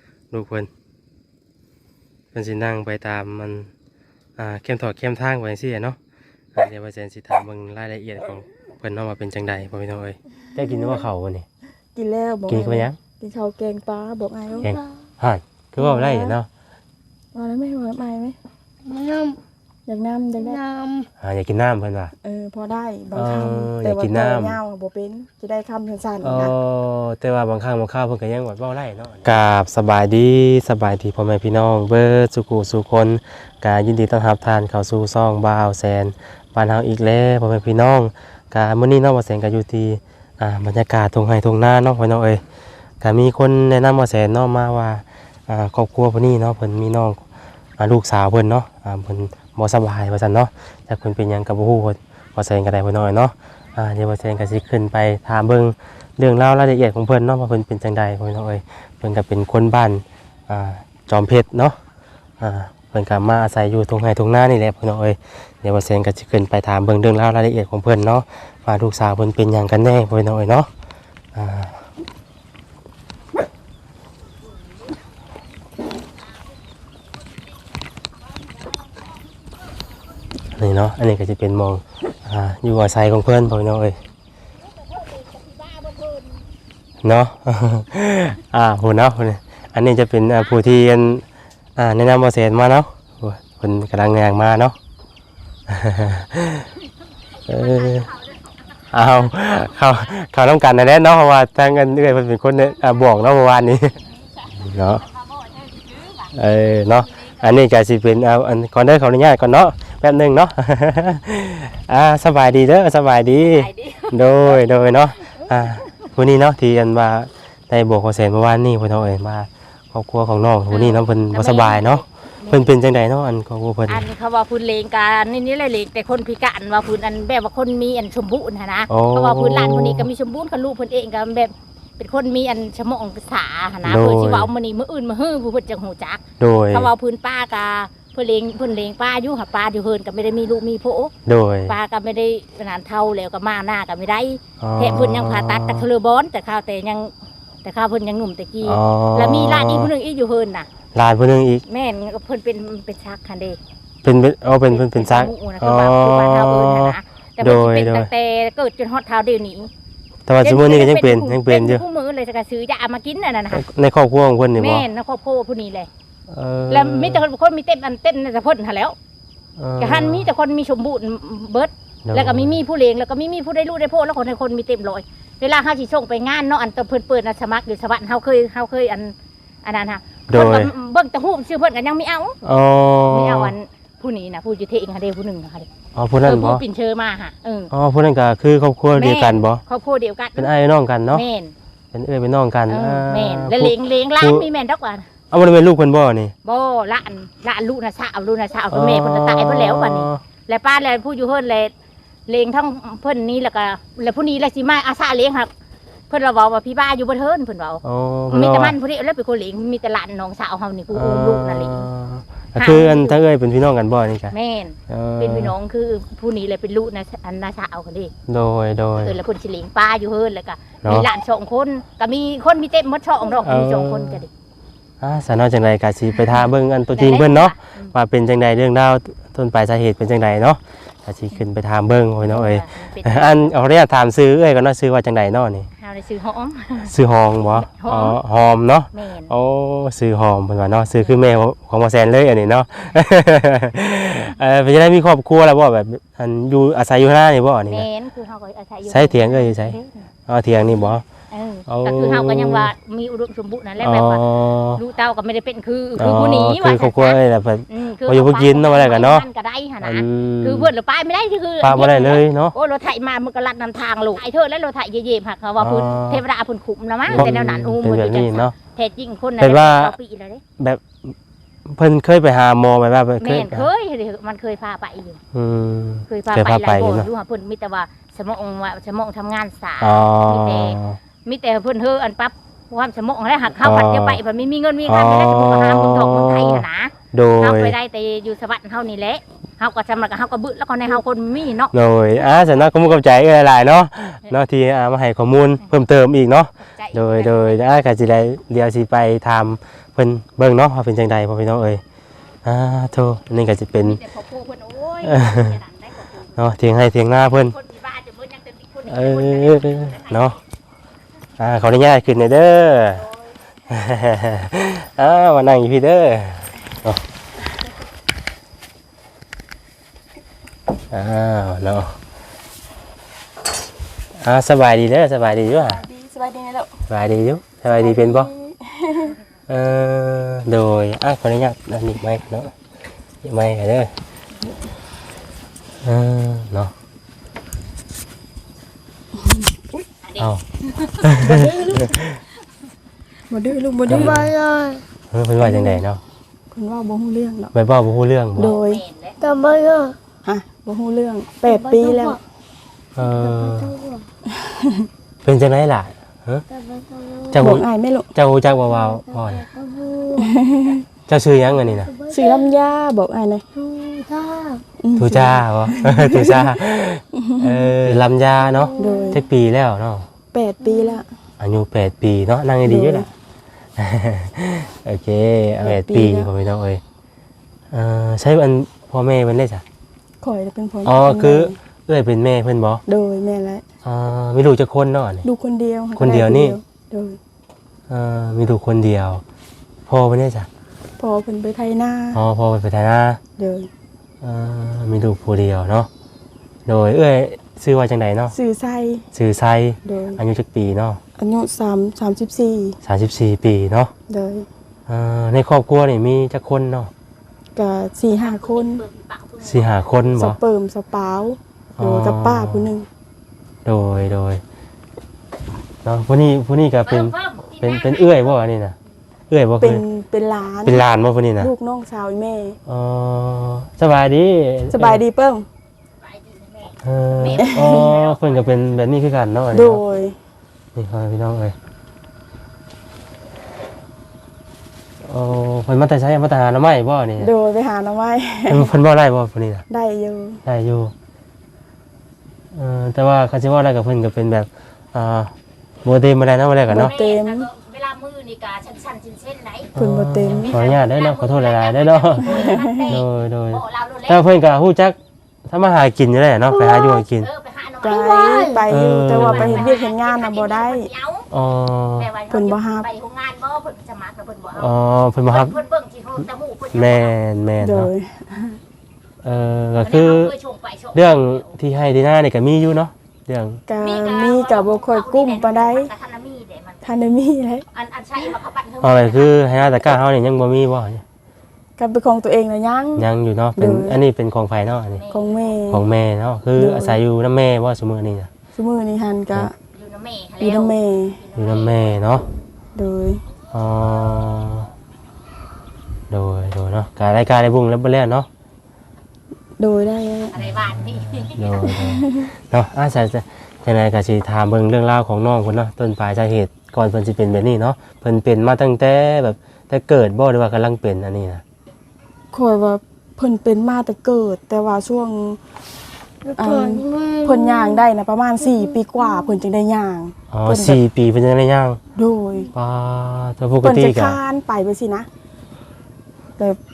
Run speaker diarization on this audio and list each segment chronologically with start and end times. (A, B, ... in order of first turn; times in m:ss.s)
0:00.3-0:00.7 A
0:02.3-0:03.7 A
0:04.4-0:06.0 A
0:06.5-0:11.5 A
0:12.0-0:14.7 B
0:12.5-0:13.0 A
0:14.6-0:16.5 A
0:15.8-0:16.4 B
0:17.4-0:18.4 B
0:18.8-0:19.4 C
0:19.9-0:20.6 B
0:20.4-0:21.1 C
0:21.2-0:22.1 A
0:22.2-0:26.5 B
0:23.1-0:24.6 A
0:26.2-0:42.4 A
0:43.0-0:47.2 A
0:47.8-1:01.8 A
1:02.4-1:10.7 A
1:11.3-1:11.8 A
1:20.6-1:24.0 A
1:24.7-1:26.4 D
1:27.0-1:31.2 A
1:31.8-1:34.8 A
1:35.7-1:36.7 A
1:37.4-1:39.5 D
1:37.5-1:38.1 A
1:38.9-1:44.0 A
1:44.1-1:46.3 D
1:44.6-1:45.0 A
1:46.3-2:04.0 A
1:53.5-1:54.6 D
2:00.7-2:02.8 D
2:03.9-2:21.1 D
2:08.9-2:10.1 A
2:13.8-2:14.5 A
2:16.4-2:16.9 A
2:21.3-2:21.8 A
2:21.7-2:27.1 D
2:24.6-2:25.9 A
2:27.6-2:30.7 D
2:28.6-2:29.9 A
2:30.9-2:31.6 A
2:31.7-2:33.6 D
2:34.0-2:38.1 A
2:34.6-2:39.7 D
2:40.3-2:41.8 A
2:40.4-2:43.7 D
2:43.5-2:44.9 A
2:44.6-2:45.9 D
2:46.3-2:47.2 A
2:46.7-2:49.0 D
2:49.6-2:50.3 A
2:49.8-2:59.1 D
2:52.0-2:52.6 A
2:59.6-3:02.4 D
3:00.3-3:00.7 A
3:02.4-3:03.6 A
3:03.1-3:05.7 D
3:06.0-3:06.6 A
3:06.2-3:07.7 D
3:07.7-3:09.6 A
3:08.9-3:10.5 D
3:10.4-3:11.2 A
3:11.1-3:11.5 D
3:11.9-3:14.5 A
3:12.7-3:15.1 D
3:15.3-3:16.3 A
3:16.4-3:21.7 D
3:18.7-3:20.2 A
3:22.3-3:25.5 D
3:26.1-3:31.9 D
3:27.8-3:28.8 A
3:30.9-3:34.4 A
3:32.6-3:33.2 D
3:34.3-3:38.1 D
3:34.9-3:35.5 A
3:38.3-3:39.2 A
3:39.0-3:44.3 D
3:40.8-3:41.1 A
3:43.4-3:44.2 A
3:45.0-3:55.7 A
3:46.9-3:47.9 D
3:52.2-3:53.5 D
3:55.8-3:56.9 D
3:56.9-4:07.9 A
3:57.6-3:58.2 D
3:58.9-3:59.3 D
4:07.7-4:10.1 D
4:08.9-4:11.0 A
4:11.3-4:30.4 D
4:11.7-4:12.7 A
4:13.8-4:14.8 A
4:16.0-4:19.3 A
4:19.8-4:20.7 A
4:21.6-4:22.6 A
4:25.6-4:26.2 A
4:27.1-4:28.6 A
4:29.4-4:30.0 A
4:30.6-4:31.1 A
4:31.7-4:33.7 A
4:33.2-4:35.2 D
4:35.3-4:37.1 A
4:36.1-4:52.6 D
4:39.8-4:41.0 A
4:43.6-4:44.2 A
4:44.9-4:47.8 A
4:51.7-5:01.8 A
4:56.6-4:57.6 D
5:02.4-5:04.0 A
5:03.8-5:06.5 D
5:05.0-5:05.6 A
5:06.4-5:07.6 A
5:07.3-5:10.4 D
5:08.9-5:10.4 A
5:11.4-5:13.1 A
5:13.7-5:17.0 A
5:20.9-5:22.0 A
5:24.2-5:25.8 A
5:25.6-5:26.8 B
5:26.9-5:28.3 A
5:27.7-5:29.2 B
5:29.5-5:32.5 A
5:33.2-5:33.9 A
5:35.8-5:36.7 A
5:39.2-5:39.6 B
5:40.0-5:41.1 D
5:40.2-5:40.4 A
5:41.0-5:42.2 A
5:41.2-5:41.9 C
5:43.3-5:44.3 B
5:43.9-5:44.3 A
5:43.9-5:44.8 C
5:45.1-5:46.0 A
5:45.4-5:45.8 B
5:46.5-5:47.5 B
5:47.5-5:48.6 A
5:48.4-5:48.8 B
5:48.4-5:49.2 D
5:49.2-5:50.0 C
5:50.2-5:52.2 B
5:51.4-5:52.2 C
5:53.0-5:53.8 A
5:53.0-5:54.1 C
5:54.3-5:54.9 B
5:55.2-5:56.4 A
5:56.5-5:57.5 C
5:57.3-5:57.6 A
5:57.4-5:58.1 B
5:58.2-5:59.4 A
5:58.7-6:00.4 C
6:00.2-6:00.8 B
6:01.1-6:01.9 A
6:01.6-6:02.4 C
6:02.1-6:03.4 B
6:03.6-6:04.6 C
6:04.8-6:06.6 B
6:05.0-6:10.1 A
6:07.1-6:08.0 B
6:08.4-6:09.2 C
6:08.8-6:09.2 B
6:10.3-6:11.0 B
6:10.6-6:11.0 C
6:11.4-6:13.1 A
6:12.6-6:13.1 B
6:13.8-6:16.8 A
6:15.6-6:16.3 B
6:17.7-6:19.6 A
6:20.2-6:21.6 B
6:20.8-6:22.8 A
6:22.9-6:23.6 B
6:23.8-6:25.2 A
6:25.2-6:27.2 B
6:26.0-6:26.6 A
6:27.9-6:29.2 A
6:29.9-6:30.5 A
6:31.0-6:32.2 B
6:32.1-6:33.2 A
6:33.4-6:33.7 B
6:34.2-6:35.9 A
6:36.7-6:38.3 A
6:38.3-6:39.1 B
6:39.1-6:41.0 A
6:39.8-6:40.2 B
6:41.2-6:42.8 B
6:42.8-6:43.9 A
6:44.1-6:44.5 B
6:44.9-6:46.9 A
6:47.6-6:48.8 B
6:48.2-6:49.8 D
6:49.4-6:50.4 A
6:50.2-6:52.9 B
6:51.8-6:52.7 A
6:53.6-6:54.4 A
6:55.8-6:58.8 A
6:56.9-6:58.4 D
6:59.3-6:59.8 A
6:59.6-7:00.8 B
7:00.6-7:01.5 A
7:01.4-7:02.6 B
7:02.7-7:05.0 A
7:04.7-7:05.5 B
7:06.0-7:08.6 D
7:06.8-7:09.8 A
7:07.4-7:07.9 B
7:09.5-7:10.2 B
7:10.8-7:11.6 A
7:15.0-7:17.3 A
7:17.2-7:18.7 B
7:18.5-7:19.6 A
7:19.7-7:20.4 B
7:20.4-7:20.9 A
7:22.5-7:25.3 A
7:25.8-7:26.9 A
7:26.7-7:27.5 B
7:26.8-7:29.7 D
7:29.8-7:37.3 A
7:29.8-7:30.5 B
7:30.4-7:34.2 D
7:32.2-7:32.9 B
7:36.5-7:37.0 C
7:37.0-7:38.6 D
7:37.8-7:40.9 B
7:37.8-7:38.6 C
7:38.7-7:39.8 A
7:39.1-7:41.3 D
7:41.3-7:42.1 A
7:42.0-7:44.8 D
7:42.3-7:42.9 B
7:44.6-7:45.5 A
7:45.3-7:47.2 D
7:46.7-7:47.9 A
7:47.6-7:48.6 B
7:49.2-7:50.3 A
7:49.8-7:51.5 D
7:50.9-7:53.6 A
7:53.7-7:55.9 B
7:53.8-7:57.0 D
7:56.8-7:57.6 B
7:57.7-7:59.4 D
7:58.8-8:01.0 A
8:01.8-8:04.0 B
8:03.0-8:05.0 A
8:05.0-8:05.2 D
8:05.1-8:05.8 B
8:05.7-8:08.3 A
8:06.6-8:07.0 B
8:08.6-8:09.5 B
8:09.7-8:12.0 D
8:10.4-8:11.2 B
8:11.4-8:12.2 A
8:12.8-8:13.2 B
8:13.5-8:14.7 A
8:16.1-8:18.3 A
8:19.6-8:20.4 B
8:20.3-8:21.8 D
8:20.4-8:31.4 A
8:21.7-8:22.3 B
8:32.3-8:35.4 B
8:36.2-8:37.8 C
8:36.4-8:40.8 B
8:38.4-8:39.2 C
8:40.3-8:41.8 A
8:42.0-8:42.5 B
8:42.5-8:44.2 A
8:43.6-8:45.1 B